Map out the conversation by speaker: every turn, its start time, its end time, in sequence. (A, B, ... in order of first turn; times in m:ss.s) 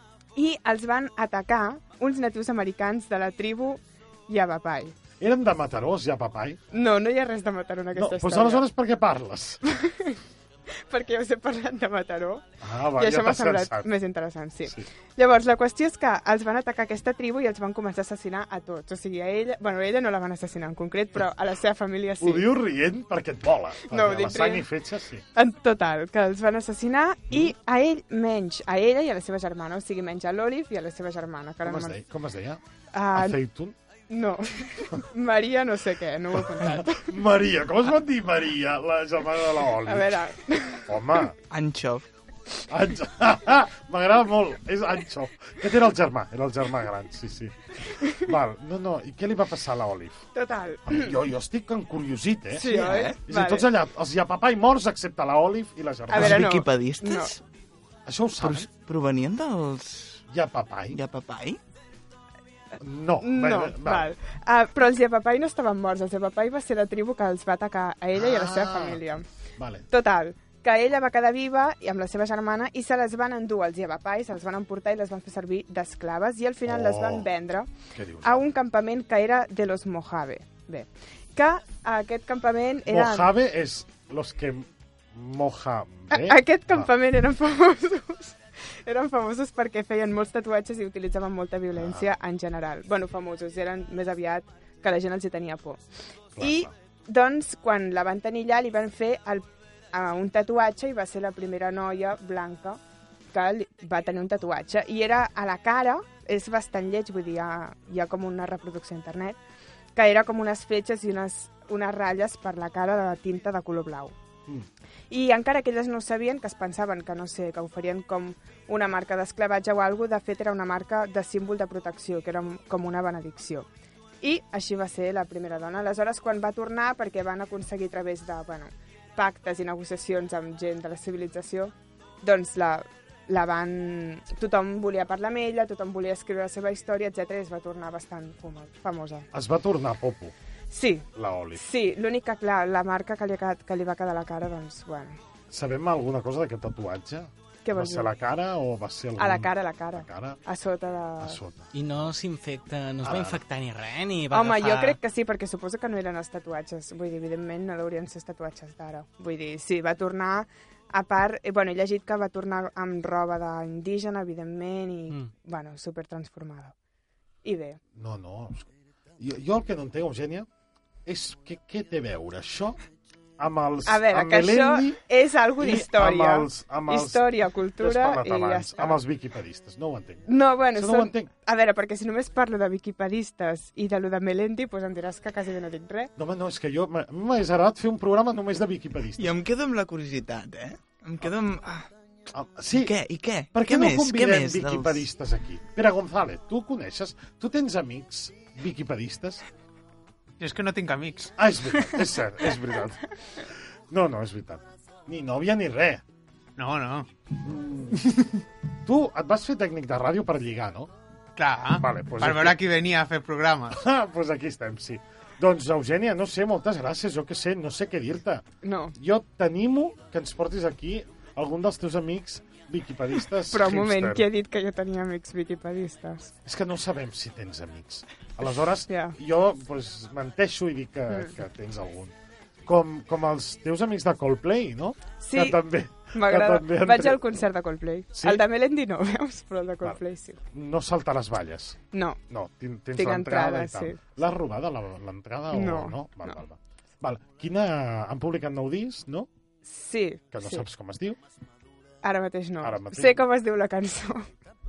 0:00.4-0:05.0 A
0:05.2-0:06.6 B
0:06.7-0:08.7 A
0:07.9-0:09.6 B
0:09.6-0:12.4 A
0:12.6-0:13.9 B
0:13.0-0:22.5 A
0:22.2-0:25.2 B
0:23.8-0:24.7 A
0:25.4-0:32.0 A
0:31.6-0:32.6 B
0:32.9-0:33.4 A
0:33.1-0:33.8 B
0:34.1-0:37.1 A
0:36.6-0:40.2 B
0:39.9-0:41.2 A
0:40.9-0:41.4 B
0:41.5-0:42.0 C
0:42.7-0:50.3 B
0:50.4-0:51.2 A
0:50.9-0:56.6 B
0:52.6-0:53.7 A
0:52.8-0:53.2 C
0:56.1-0:57.3 A
0:56.1-0:57.4 C
0:58.1-0:58.7 B
0:58.4-1:00.2 C
1:00.3-1:01.0 B
1:00.9-1:01.6 C
1:02.8-1:04.1 B
1:03.2-1:09.3 A
1:08.1-1:09.0 B
1:09.6-1:09.8 B
1:09.9-1:17.7 A
1:16.7-1:17.3 B
1:17.9-1:18.4 B
1:18.2-1:23.3 A
1:22.9-1:26.9 B
1:26.1-1:35.8 A
1:31.7-1:32.1 B
1:36.4-1:36.7 B
1:36.4-1:42.8 A
1:43.3-1:49.4 A
1:50.0-1:54.2 A
1:55.1-2:03.7 A
2:04.2-2:19.3 A
2:19.3-2:20.3 B
2:20.7-2:25.2 A
2:21.2-2:21.6 B
2:25.5-2:30.4 B
2:27.6-2:28.1 A
2:29.2-2:31.4 A
2:31.2-2:31.7 B
2:31.7-2:35.0 D
2:33.0-2:33.4 B
2:34.3-2:46.8 A
2:47.4-2:47.8 A
2:47.9-2:50.5 B
2:51.1-2:52.8 B
2:53.4-2:55.0 B
2:53.9-2:59.0 A
2:55.6-2:57.3 B
2:57.8-3:01.3 B
3:00.3-3:06.1 A
3:06.2-3:09.4 B
3:09.2-3:11.9 C
3:12.3-3:12.9 B
3:12.7-3:15.0 C
3:13.5-3:19.4 B
3:20.4-3:21.3 E
3:21.4-3:26.0 B
3:26.6-3:27.1 E
3:27.4-3:28.0 B
3:28.8-3:30.9 B
3:31.4-3:33.8 E
3:31.8-3:32.6 B
3:33.7-3:38.4 B
3:38.6-3:39.0 A
3:39.0-3:44.3 B
3:43.5-3:46.3 A
3:46.4-3:57.2 B
3:48.9-3:49.2 A
3:55.2-4:00.4 A
3:58.2-3:58.4 B
4:00.5-4:01.8 B
4:01.9-4:02.2 A
4:02.3-4:09.3 B
4:02.9-4:04.0 A
4:05.5-4:06.4 A
4:09.6-4:10.6 A
4:10.3-4:11.2 B
4:12.0-4:14.3 A
4:12.6-4:13.2 B